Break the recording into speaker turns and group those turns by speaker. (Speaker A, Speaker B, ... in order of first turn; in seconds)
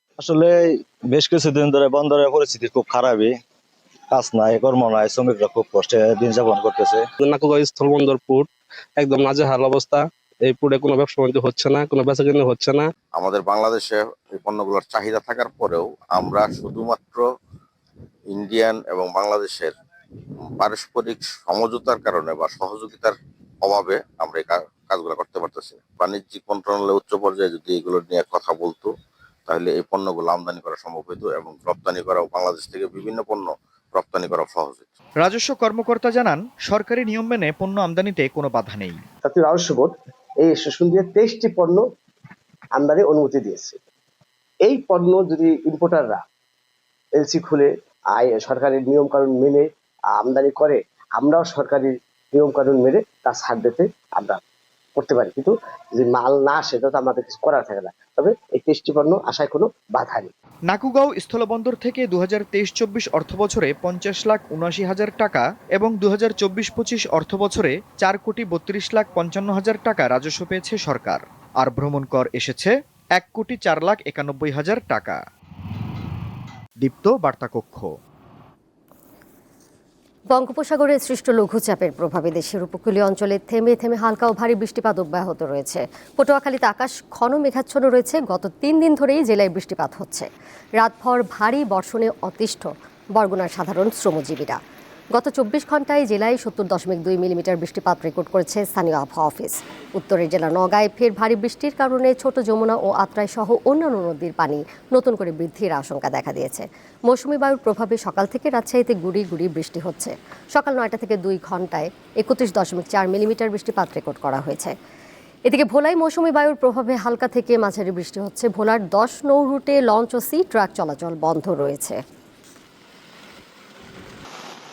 Speaker A: 0.2-3.4, 4.1-7.1
Speaker B: 7.3-8.4, 9.0-10.0, 10.5-12.8
Speaker C: 13.1-17.2, 18.3-19.7, 20.6-28.9, 29.5-34.9
Speaker D: 35.2-39.0, 60.7-75.2, 76.8-77.9
Speaker E: 39.3-39.9, 40.5-41.8, 42.8-43.7, 44.7-46.1, 47.3-47.6, 48.3-49.6, 50.3-51.8, 52.4-54.4, 55.0-55.5, 56.0-60.3
Speaker F: 80.3-90.3, 90.8-94.6, 95.1-114.8, 115.5-122.0